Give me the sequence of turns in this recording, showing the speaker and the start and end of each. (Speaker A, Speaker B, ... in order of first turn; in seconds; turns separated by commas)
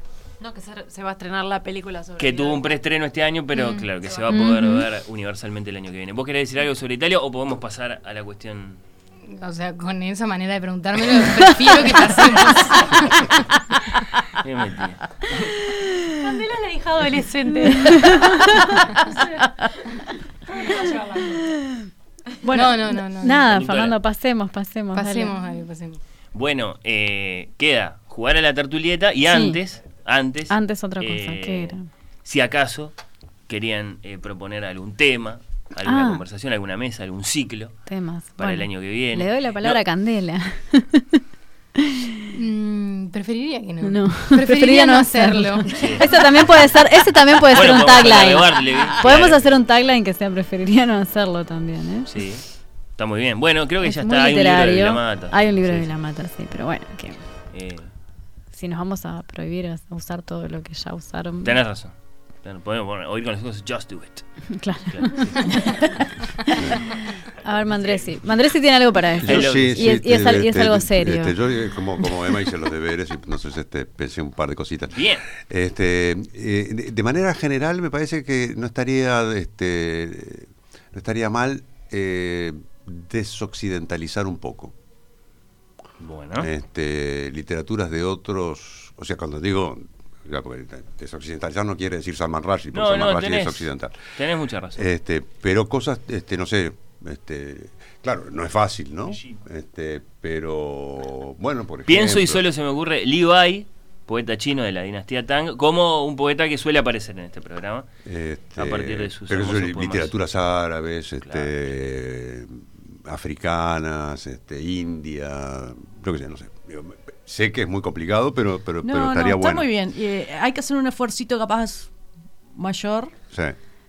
Speaker A: 0.4-2.8, Speaker B: 2.2-8.8, Speaker A: 4.0-4.4, Speaker C: 4.3-4.8, Speaker D: 9.3-13.3, Speaker B: 14.4-15.5, Speaker A: 16.2-18.5, Speaker C: 17.8-18.3, Speaker A: 20.6-21.4, Speaker C: 22.5-25.3, Speaker D: 22.5-23.4, Speaker B: 23.5-23.9, Speaker D: 24.9-26.0, Speaker B: 26.3-32.9, Speaker C: 29.3-29.6, Speaker C: 30.5-31.8, Speaker B: 33.5-37.8, Speaker C: 35.8-36.2, Speaker C: 37.9-41.2, Speaker B: 38.4-39.8, Speaker C: 41.8-42.1, Speaker D: 42.3-45.7, Speaker C: 43.8-52.2, Speaker B: 45.7-46.1, Speaker B: 47.5-49.4, Speaker B: 52.1-52.4, Speaker B: 53.0-55.9, Speaker C: 53.8-57.2, Speaker B: 57.5-57.9, Speaker C: 58.5-61.6, Speaker B: 61.4-65.8, Speaker C: 64.6-65.8, Speaker C: 67.3-71.4, Speaker E: 69.2-84.7, Speaker B: 69.2-69.9, Speaker C: 72.0-72.3, Speaker B: 74.9-75.2, Speaker B: 86.0-86.5, Speaker E: 86.4-94.0, Speaker B: 92.7-94.8, Speaker E: 94.7-102.4, Speaker B: 101.9-107.9, Speaker E: 108.0-119.7, Speaker B: 108.6-110.1, Speaker B: 111.2-111.5, Speaker F: 118.8-121.9, Speaker F: 122.5-123.2, Speaker E: 123.3-123.5